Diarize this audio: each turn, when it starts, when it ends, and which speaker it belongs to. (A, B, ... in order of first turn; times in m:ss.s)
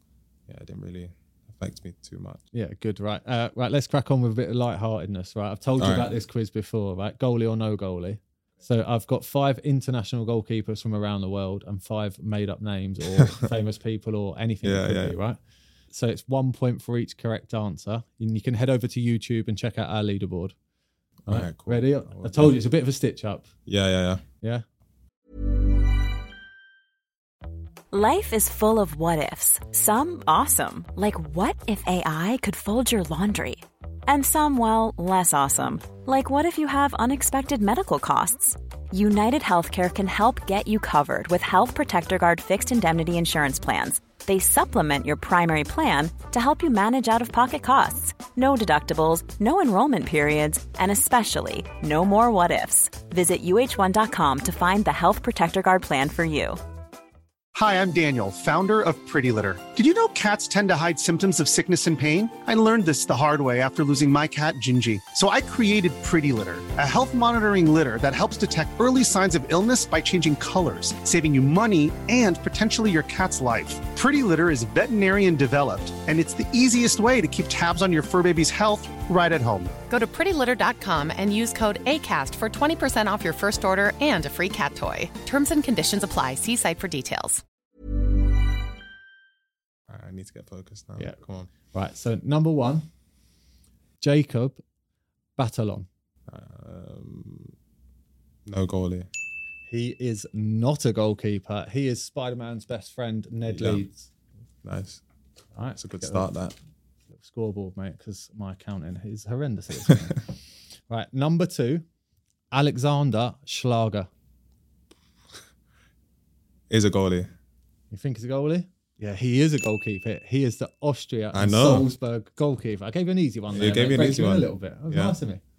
0:00.5-0:02.4 A
0:02.5-0:15.4 B
0:05.8-0:06.1 A
0:13.2-0:13.4 A
0:14.6-0:15.2 A
0:15.9-0:20.5 B
0:21.2-0:22.6 A
0:21.3-0:23.5 B
0:23.6-0:24.2 A
0:27.9-0:56.6 C
0:57.5-1:19.7 D
1:19.9-1:27.4 E
1:29.9-1:31.5 A
1:31.0-1:32.9 B
1:34.0-1:34.6 B
1:35.4-1:35.9 B
1:36.3-1:37.5 A
1:38.4-1:39.1 A
1:39.7-1:44.1 B
1:43.5-1:43.8 A
1:44.6-1:45.0 A
1:45.5-1:46.3 B
1:45.8-1:46.6 A
1:47.1-1:50.2 B
1:50.9-1:51.8 B
1:52.5-1:54.1 B
1:56.7-1:57.3 A
1:57.9-2:05.4 B
2:01.3-2:01.9 A
2:03.5-2:05.2 A